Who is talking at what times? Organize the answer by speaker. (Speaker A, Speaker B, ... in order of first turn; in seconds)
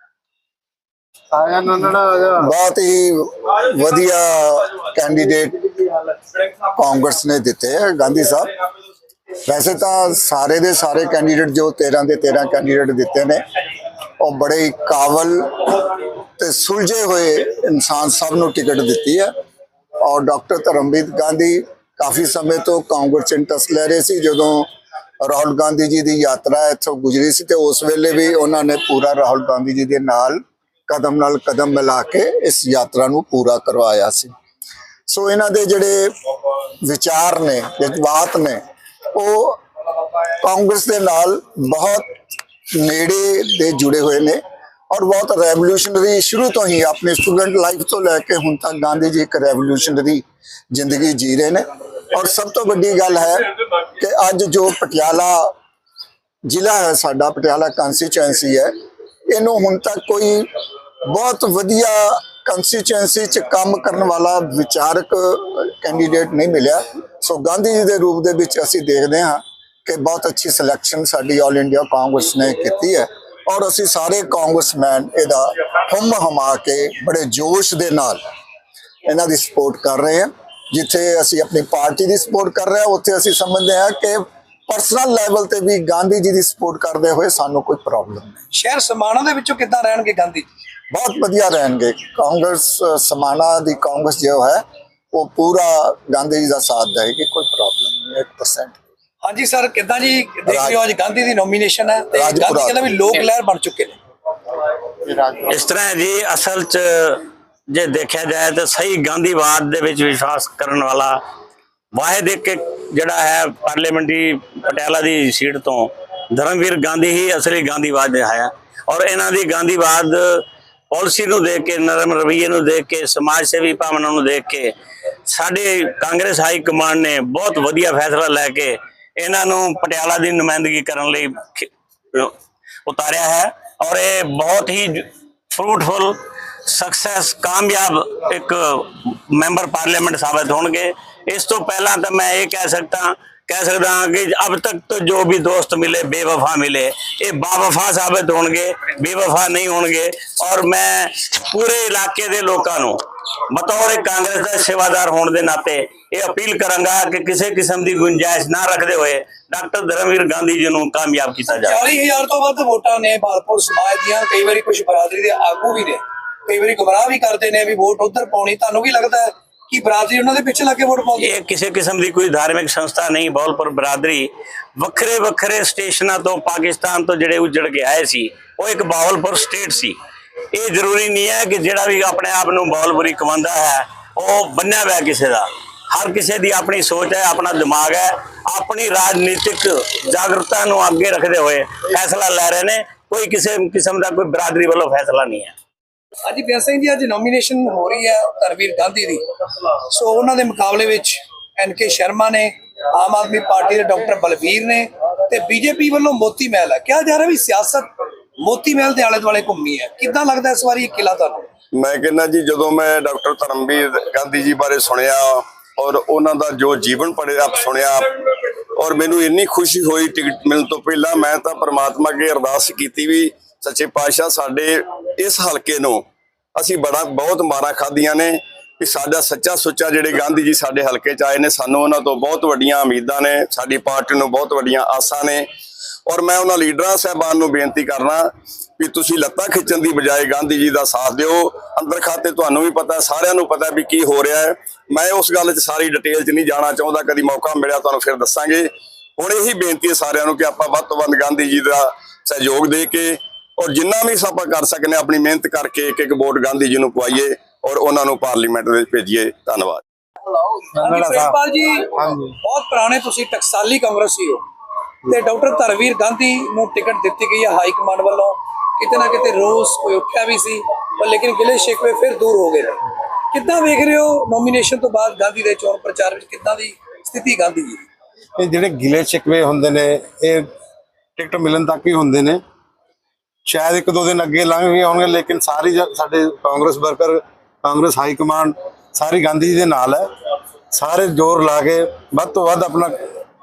Speaker A: 1.3-2.5, 260.3-261.4, 261.9-262.4, 278.4-280.5, 281.2-282.4, 283.5-290.1, 290.7-293.0
Speaker B: 2.4-5.7, 6.7-8.5, 9.5-13.4, 14.2-19.3, 20.0-24.7, 25.2-34.3, 35.1-36.1, 36.8-38.6, 39.1-39.6, 40.4-42.1, 42.7-44.4, 44.9-55.5, 56.5-58.7, 59.3-60.5, 61.1-78.2, 79.1-88.4, 90.9-94.6, 95.1-98.8, 100.5-100.8, 102.2-102.8, 105.1-105.5
Speaker C: 88.5-90.5, 99.2-104.0, 161.5-171.3, 196.3-199.2, 199.9-207.9, 208.4-211.5, 260.8-261.9, 262.4-264.4, 265.1-272.8, 273.3-277.8
Speaker D: 105.5-111.2, 111.9-124.7, 125.3-132.3, 132.9-153.0, 153.5-161.8, 171.2-180.0, 180.5-195.5
Speaker E: 211.7-226.0, 226.6-235.5, 236.1-238.3, 238.8-259.8